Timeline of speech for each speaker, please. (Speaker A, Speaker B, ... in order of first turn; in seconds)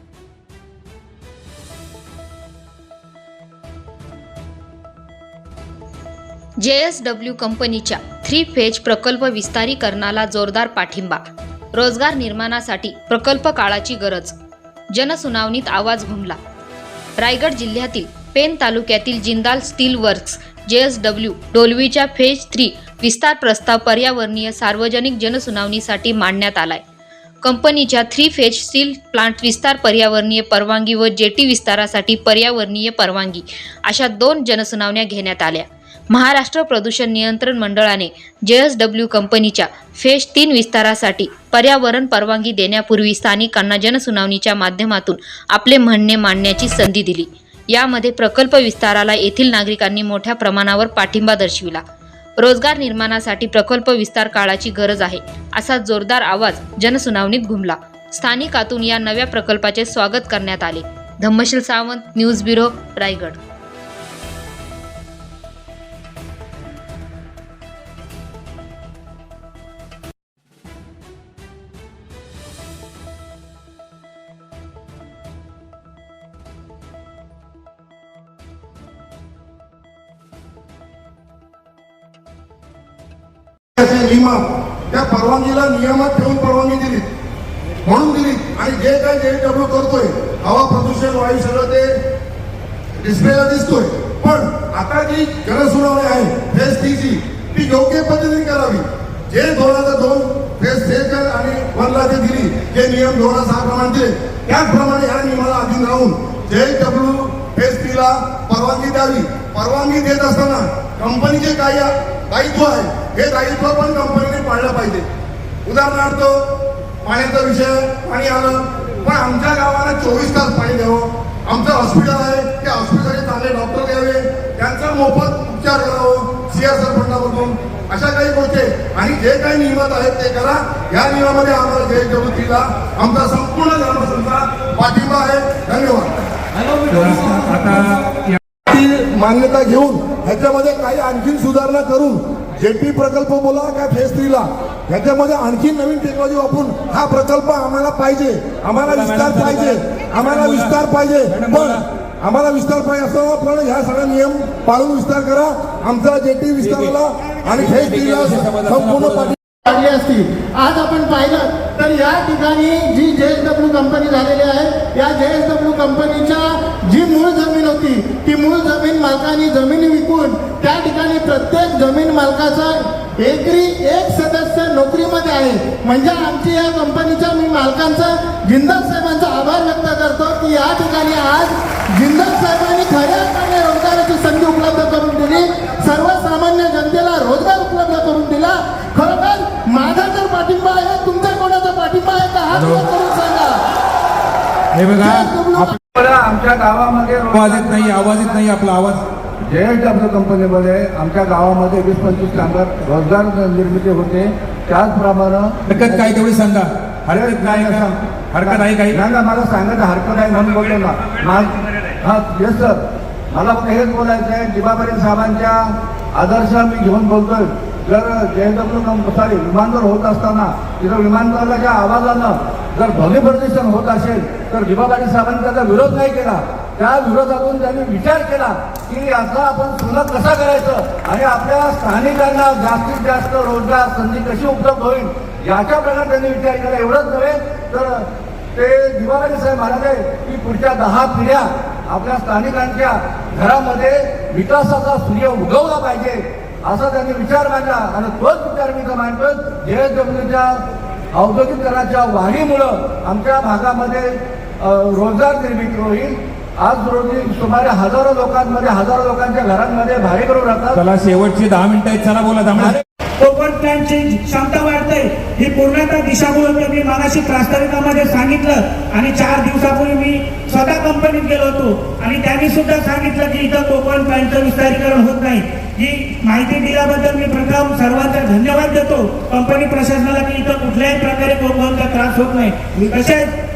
Speaker A: 6.6-11.2, 11.8-14.3, 14.9-16.4, 17.2-26.8, 27.4-51.8, 52.4-63.4
Speaker B: 83.8-87.1, 87.8-92.0, 93.0-115.0, 115.6-116.5, 117.0-136.1, 138.7-159.3
Speaker C: 136.8-138.0, 148.8-151.8, 156.6-156.9, 157.5-159.3, 192.5-192.8, 194.7-195.8, 197.3-199.0, 205.7-209.0, 260.7-262.8
Speaker D: 159.6-193.6, 195.0-195.8
Speaker E: 195.9-198.3, 199.4-206.2, 207.1-260.8
Speaker F: 263.2-283.3